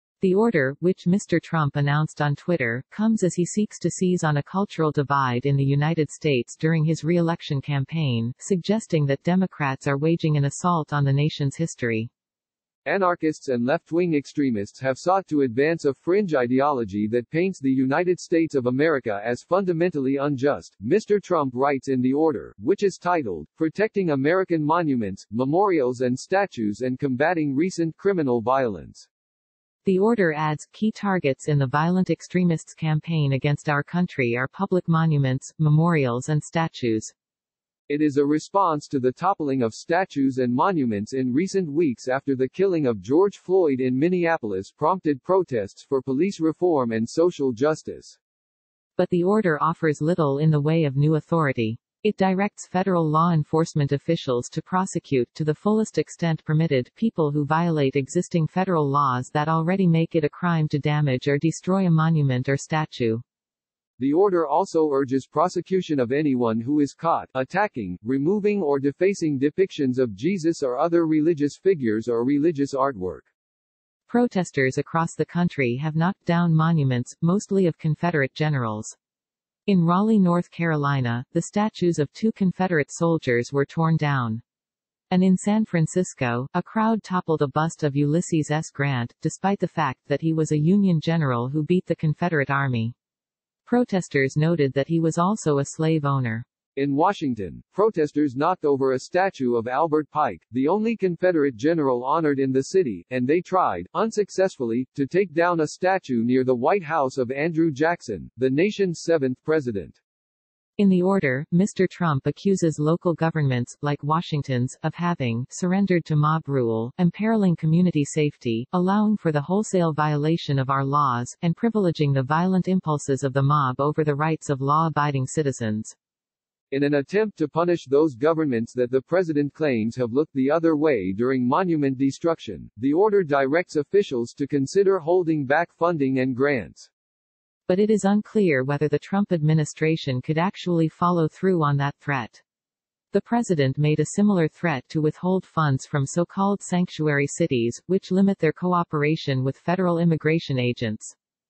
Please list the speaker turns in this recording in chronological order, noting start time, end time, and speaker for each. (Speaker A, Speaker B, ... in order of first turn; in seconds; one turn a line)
Speaker A: 0.2-12.1
Speaker B: 12.8-29.1
Speaker A: 29.8-37.1
Speaker B: 37.9-48.2
Speaker A: 49.0-63.2
Speaker B: 64.0-73.3
Speaker A: 74.1-79.0
Speaker A: 79.7-84.4
Speaker A: 85.1-92.9
Speaker A: 93.7-96.4
Speaker B: 96.8-110.0
Speaker A: 110.8-125.9
Speaker B: 126.7-136.9
Speaker A: 137.7-142.4
Speaker A: 143.1-151.1